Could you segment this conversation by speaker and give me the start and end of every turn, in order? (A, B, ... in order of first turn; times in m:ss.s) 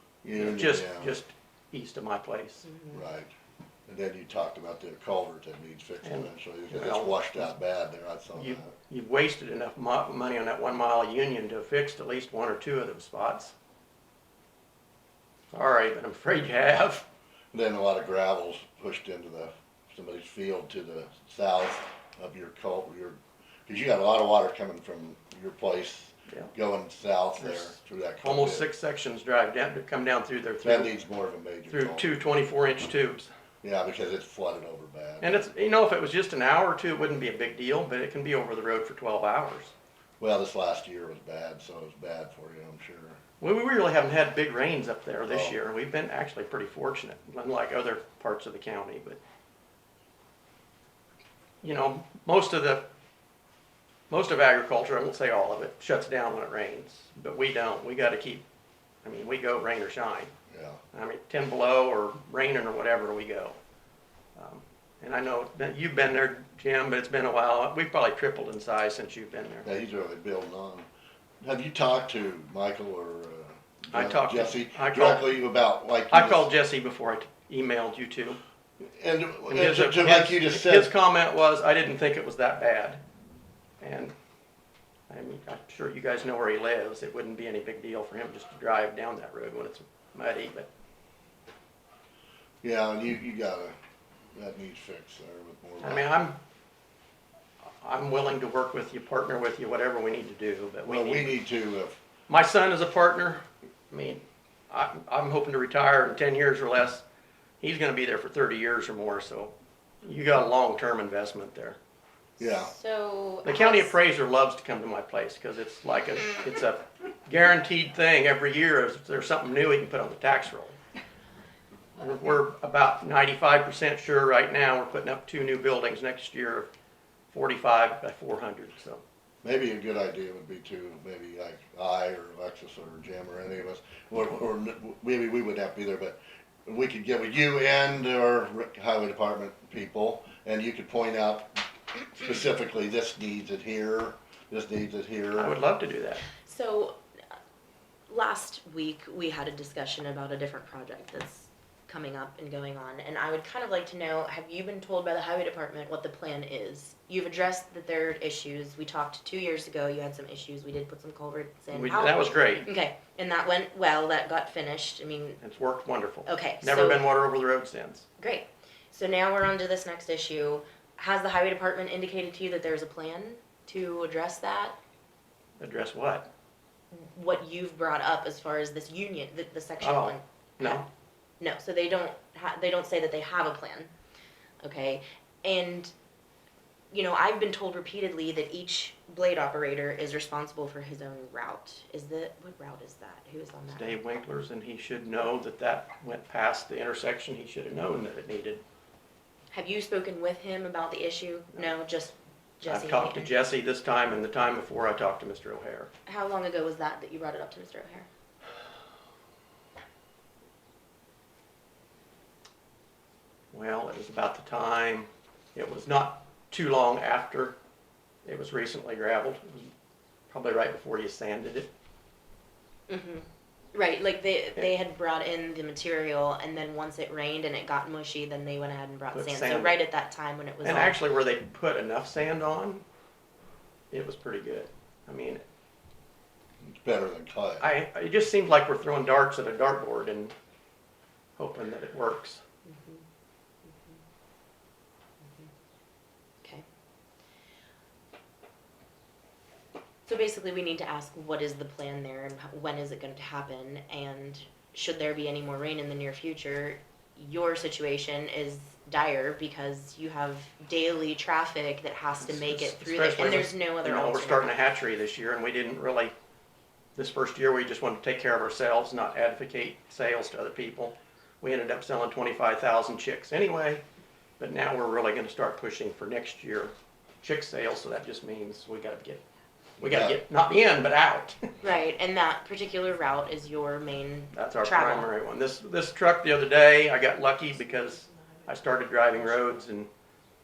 0:00.2-0:01.1 A
0:00.4-0:02.7 B
0:02.6-0:03.0 C
0:02.9-0:03.3 A
0:03.9-0:08.7 A
0:06.0-0:07.6 B
0:08.4-0:13.5 B
0:15.5-0:17.1 B
0:17.5-0:28.7 A
0:27.4-0:30.9 B
0:30.6-0:32.2 A
0:31.7-0:33.3 B
0:33.6-0:35.5 A
0:35.2-0:39.7 B
0:40.2-0:43.2 A
0:43.4-0:49.2 B
0:45.3-0:45.6 A
0:51.6-0:52.9 B
0:54.1-0:58.4 B
0:59.0-1:00.3 B
1:00.5-1:00.8 A
1:00.9-1:03.6 B
1:04.4-1:09.7 B
1:09.6-1:10.9 A
1:11.4-1:16.5 A
1:13.9-1:15.3 B
1:16.1-1:18.4 B
1:18.8-1:20.9 A
1:19.5-1:23.0 B
1:23.8-1:24.1 B
1:25.1-1:30.7 B
1:32.6-1:33.8 A
1:34.3-1:36.1 A
1:35.8-1:36.4 B
1:37.8-1:41.3 B
1:40.9-1:42.0 A
1:42.3-1:47.0 B
1:47.6-1:51.8 B
1:52.4-1:52.7 A
1:52.4-1:53.9 C
1:53.4-2:00.8 B
2:02.0-2:06.7 B
2:07.3-2:09.0 B
2:09.4-2:21.6 A
2:22.2-2:25.6 A
2:25.4-2:26.3 B
2:26.4-2:27.0 C
2:28.1-2:45.4 C
2:41.7-2:42.7 B
2:45.4-2:48.1 B
2:46.3-2:47.1 C
2:48.2-2:54.8 C
2:55.6-2:56.3 B
2:56.9-3:00.8 C
2:59.8-3:00.9 B
3:01.4-3:03.9 C
3:04.6-3:05.9 C
3:06.9-3:14.0 C
3:13.7-3:18.6 B
3:19.5-3:23.4 C
3:22.7-3:25.9 B
3:26.1-3:28.1 C
3:33.5-3:37.6 B
3:38.2-3:39.7 B
3:40.3-3:41.7 B
3:42.9-3:51.0 C
3:49.1-3:49.8 B
3:50.6-3:52.8 B
3:53.9-3:55.4 B
3:56.6-3:57.7 A
3:57.6-4:00.3 B
4:01.4-4:02.4 B
4:02.7-4:03.0 C
4:03.7-4:04.0 C
4:10.1-4:24.6 C
4:22.2-4:26.1 B
4:27.0-4:33.8 B
4:34.4-4:39.2 B
4:39.8-4:41.6 B
4:39.8-4:40.2 A
4:41.6-4:45.1 C
4:44.3-4:49.9 B